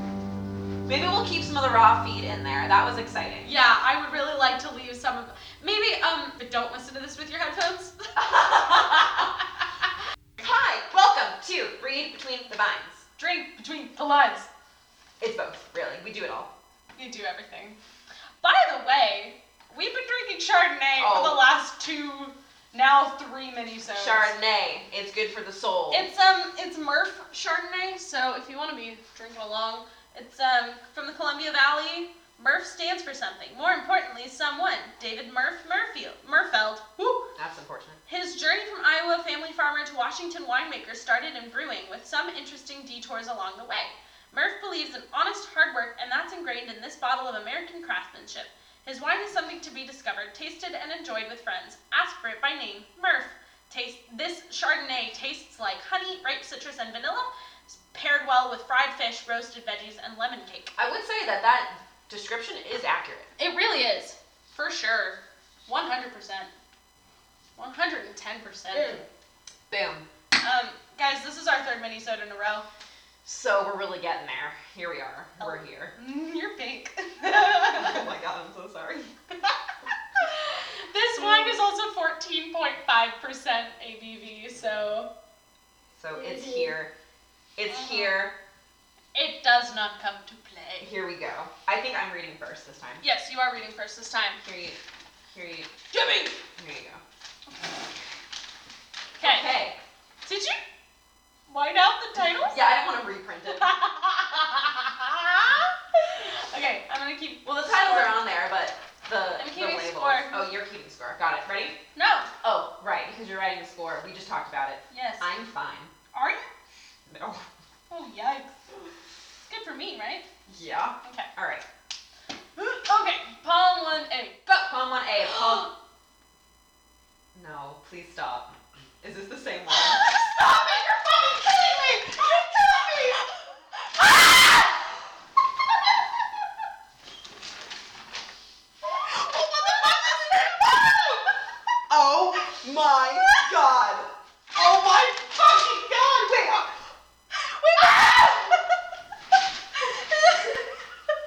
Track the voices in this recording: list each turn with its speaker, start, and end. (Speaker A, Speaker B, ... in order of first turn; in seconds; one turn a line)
Speaker A: 0.8-3.5
Speaker B: 3.4-8.4
Speaker A: 8.2-9.3
Speaker A: 10.4-13.0
Speaker B: 13.2-14.5
Speaker A: 15.2-16.5
Speaker B: 17.0-17.8
Speaker B: 18.4-24.3
Speaker A: 21.0-21.4
Speaker A: 23.9-26.1
Speaker B: 25.9-37.3
Speaker A: 37.4-38.0
Speaker B: 38.1-60.7
Speaker A: 60.8-63.3
Speaker B: 63.4-66.5
Speaker B: 67.6-69.0
Speaker A: 68.7-69.0
Speaker A: 69.7-70.0
Speaker B: 70.4-72.7
Speaker A: 73.2-75.9
Speaker B: 75.4-78.0
Speaker A: 77.2-79.1
Speaker B: 80.2-85.1
Speaker A: 81.2-81.5
Speaker A: 86.0-86.9
Speaker B: 86.3-86.6
Speaker A: 87.5-88.3
Speaker B: 87.7-88.2
Speaker B: 89.1-90.9
Speaker A: 90.8-93.0
Speaker B: 93.0-94.4
Speaker A: 94.4-94.8
Speaker A: 95.3-95.9
Speaker B: 95.9-96.4
Speaker A: 96.4-97.0
Speaker B: 99.2-99.5
Speaker A: 99.2-99.8
Speaker B: 100.2-100.6
Speaker B: 101.5-102.6
Speaker A: 102.5-103.7
Speaker B: 103.5-108.2
Speaker A: 107.4-111.8
Speaker B: 109.4-110.4
Speaker B: 112.0-112.3
Speaker A: 112.4-115.9
Speaker B: 114.9-115.3
Speaker B: 116.1-116.5
Speaker A: 117.1-117.5
Speaker B: 117.9-118.5
Speaker B: 119.5-120.2
Speaker A: 120.5-121.6
Speaker B: 122.6-124.5
Speaker A: 124.5-125.7
Speaker B: 125.4-125.7
Speaker A: 127.3-133.2
Speaker B: 129.9-130.8
Speaker A: 134.0-134.5
Speaker A: 139.0-141.3
Speaker A: 141.9-146.8
Speaker B: 147.4-148.4
Speaker A: 147.8-148.6
Speaker A: 149.8-150.7